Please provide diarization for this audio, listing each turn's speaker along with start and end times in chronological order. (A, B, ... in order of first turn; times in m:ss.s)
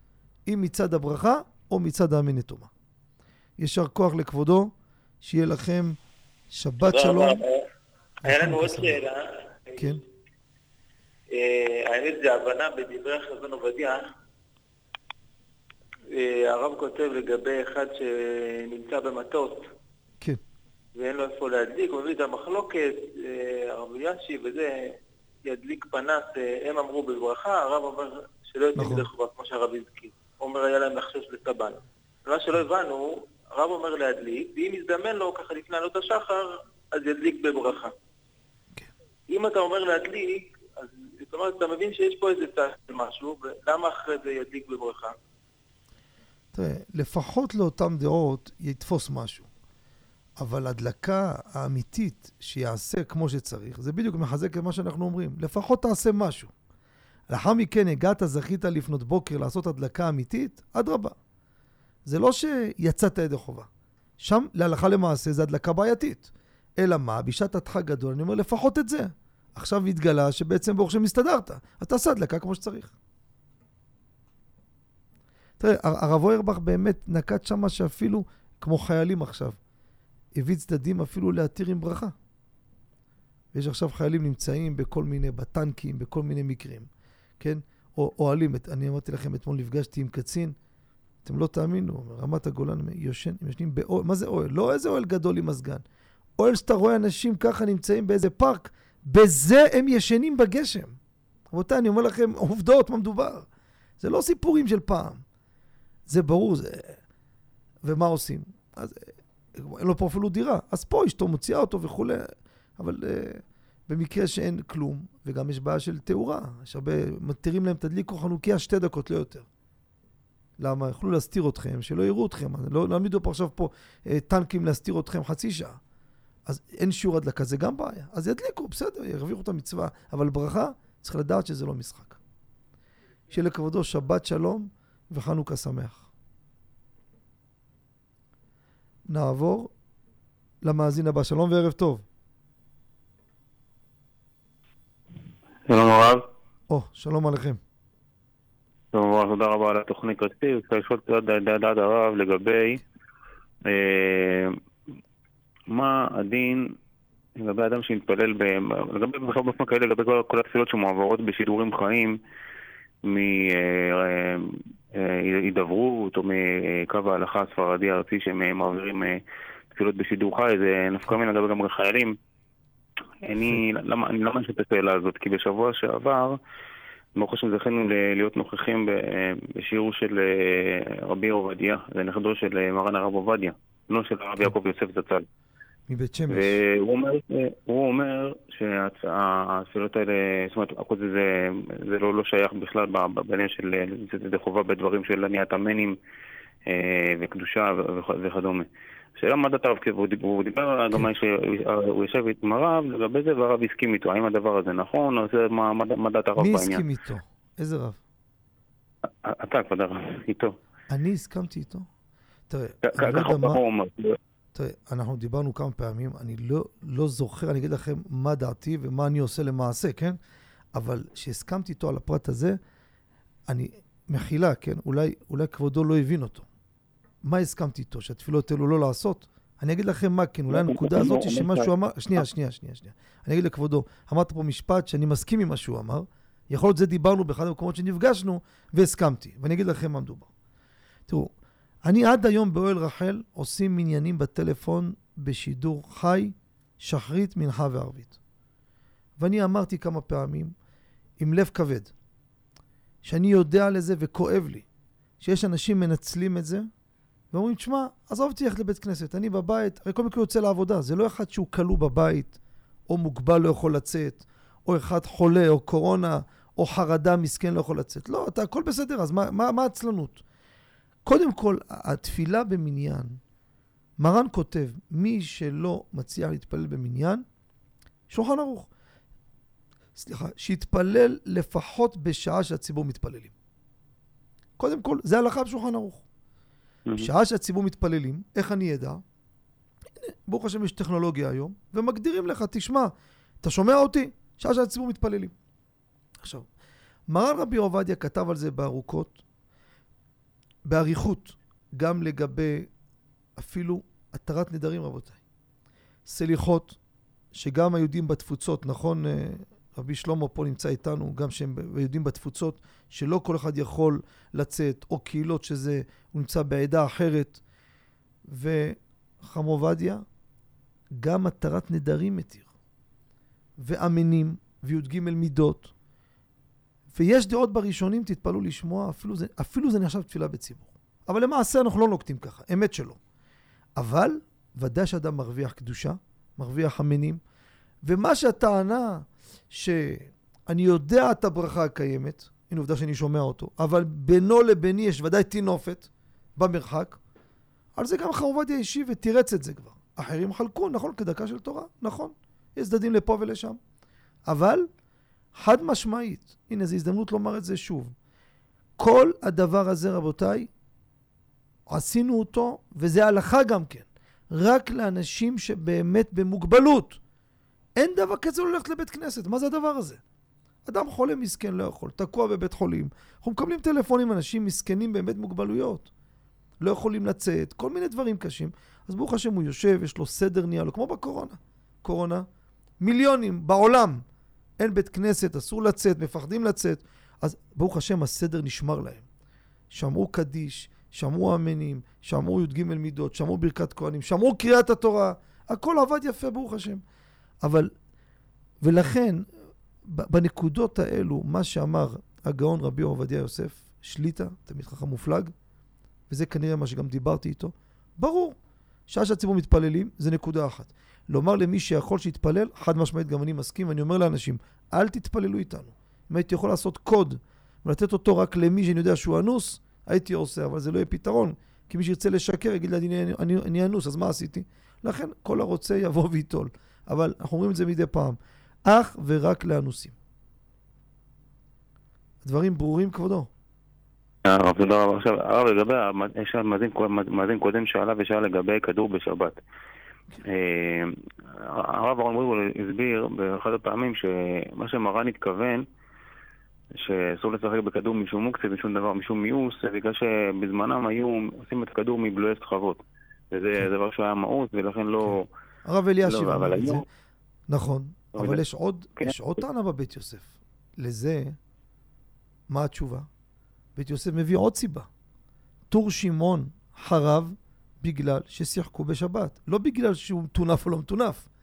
0:00.5-0:02.7 A
0:03.6-0:06.0 A
0:06.5-0:07.4 A
0:06.8-0:07.6 B
0:08.2-0:09.0 A
0:08.2-0:09.9 B
0:09.8-0:10.0 A
0:11.3-0:14.0 B
0:16.1-0:19.7 B
0:21.0-0:37.9 B
0:28.7-0:29.1 A
0:39.3-0:45.2 B
0:46.5-0:49.5 A
0:50.4-0:56.5 A
0:57.3-1:01.2 A
1:02.0-1:03.7 A
1:04.2-1:06.3 A
1:06.8-1:12.9 A
1:15.6-1:19.6 A
1:20.4-1:22.1 A
1:23.5-1:26.9 A
1:27.4-1:30.5 A
1:31.2-1:35.8 A
1:36.4-1:41.0 A
1:41.5-1:43.4 A
1:44.0-1:45.2 A
1:46.1-1:47.0 A
1:47.8-1:59.4 A
2:00.6-2:05.8 A
2:06.5-2:12.2 A
2:13.3-2:16.0 A
2:19.1-2:19.7 A
2:20.6-2:22.0 A
2:25.7-2:26.2 C
2:26.7-2:27.6 A
2:28.9-2:32.8 C
2:33.7-2:34.6 C
2:35.7-2:36.6 C
2:37.4-2:42.2 C
2:43.0-2:49.2 C
2:49.7-2:52.2 C
2:53.2-2:56.4 C
2:57.2-3:05.2 C
3:05.9-3:06.6 A
3:06.3-3:16.0 C
3:16.7-3:18.7 C
3:19.2-3:26.8 C
3:26.4-3:28.0 A
3:29.2-3:30.6 C
3:30.9-3:31.9 A
3:32.5-3:33.6 A
3:32.9-3:34.2 C
3:34.5-3:40.2 A
3:40.7-3:42.6 A
3:43.5-3:46.4 A
3:47.2-4:00.3 A
3:50.5-3:52.2 C
4:01.8-4:08.2 A
4:09.2-4:10.5 A
4:11.2-4:11.9 A
4:13.0-4:14.6 A
4:15.2-4:16.7 A
4:17.3-4:22.4 A
4:22.9-4:30.2 A
4:31.0-4:33.2 A
4:34.0-4:37.2 A
4:38.1-4:38.7 A
4:40.0-4:43.3 A
4:44.6-4:46.0 A
4:47.0-4:49.0 A
4:50.3-4:55.3 A
4:57.1-4:59.2 A
5:00.6-5:02.7 A
5:03.4-5:05.2 A
5:06.0-5:06.8 A
5:07.3-5:17.4 A
5:18.3-5:20.0 A
5:21.0-5:22.5 A
5:23.6-5:25.7 A
5:26.9-5:33.0 A
5:33.8-5:37.2 A
5:37.8-5:47.0 A
5:47.8-5:53.6 A
5:54.3-5:54.7 A
5:55.4-5:57.9 A
5:58.8-6:00.5 A
6:01.7-6:07.0 A
6:07.8-6:10.0 A
6:10.7-6:15.9 A
6:16.6-6:22.3 A
6:22.8-6:24.0 A
6:24.6-6:29.0 A
6:29.7-6:36.8 A
6:37.4-6:37.7 A
6:38.6-6:39.2 A
6:39.8-6:45.3 A
6:46.1-6:48.4 A
6:48.9-7:09.9 A
7:12.2-7:13.3 A
7:14.3-7:19.4 C
7:20.2-7:25.6 C
7:26.8-7:35.3 C
7:35.0-7:36.8 A
7:36.0-7:36.8 C
7:37.5-7:41.4 A
7:38.2-7:38.4 C
7:42.5-7:43.1 A
7:43.8-7:44.9 A
7:45.7-7:51.2 A